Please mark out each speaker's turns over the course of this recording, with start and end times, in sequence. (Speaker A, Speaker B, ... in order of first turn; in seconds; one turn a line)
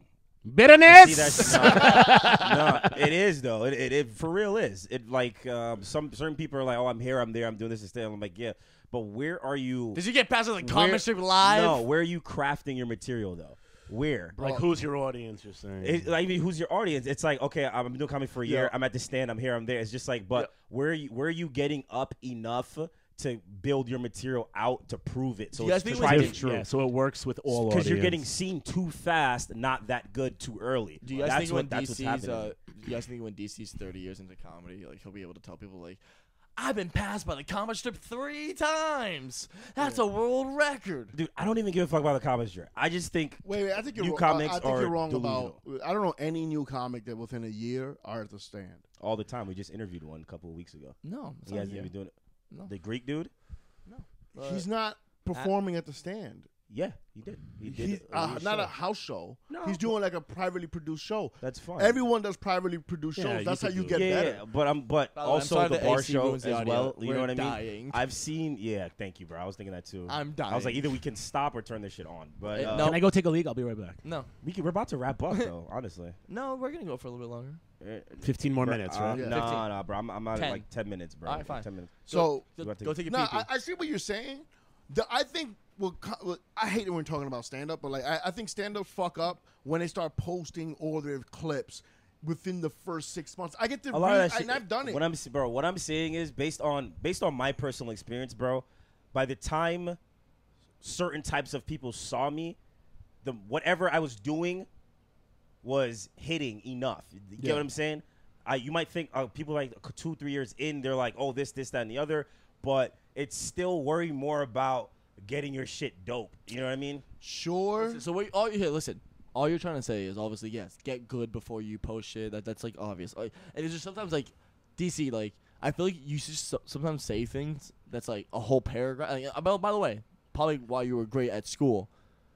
Speaker A: 0.5-3.0
Speaker B: 0.8-10.0
Speaker C: 9.9-11.8
Speaker B: 10.6-14.3
Speaker D: 14.3-14.7
Speaker A: 14.4-16.1
Speaker B: 15.8-26.7
Speaker C: 18.4-18.7
Speaker C: 25.6-26.4
Speaker A: 26.0-28.2
Speaker B: 27.5-32.5
Speaker C: 31.0-36.0
Speaker C: 36.6-41.1
Speaker B: 41.1-45.6
Speaker D: 43.4-48.8
Speaker B: 49.0-52.1
Speaker C: 51.0-51.9
Speaker B: 52.6-53.3
Speaker C: 53.9-54.7
Speaker D: 54.4-56.5
Speaker B: 56.7-58.7
Speaker D: 57.6-64.4
Speaker B: 59.5-59.9
Speaker B: 61.4-62.0
Speaker A: 63.2-64.0
Speaker B: 63.9-73.0
Speaker C: 65.1-68.0
Speaker C: 70.1-70.9
Speaker C: 72.5-73.1
Speaker A: 72.6-74.0
Speaker C: 74.0-74.3
Speaker B: 74.4-76.2
Speaker C: 76.3-77.6
Speaker B: 77.8-82.1
Speaker A: 78.2-79.4
Speaker D: 79.1-79.5
Speaker C: 79.2-79.7
Speaker C: 80.3-80.7
Speaker C: 81.2-83.5
Speaker D: 82.1-82.5
Speaker B: 82.6-83.0
Speaker D: 83.0-95.0
Speaker B: 93.9-100.0
Speaker B: 100.8-102.6
Speaker B: 103.2-104.7
Speaker B: 105.6-117.0
Speaker D: 107.4-107.7
Speaker D: 117.2-118.0
Speaker C: 117.8-131.9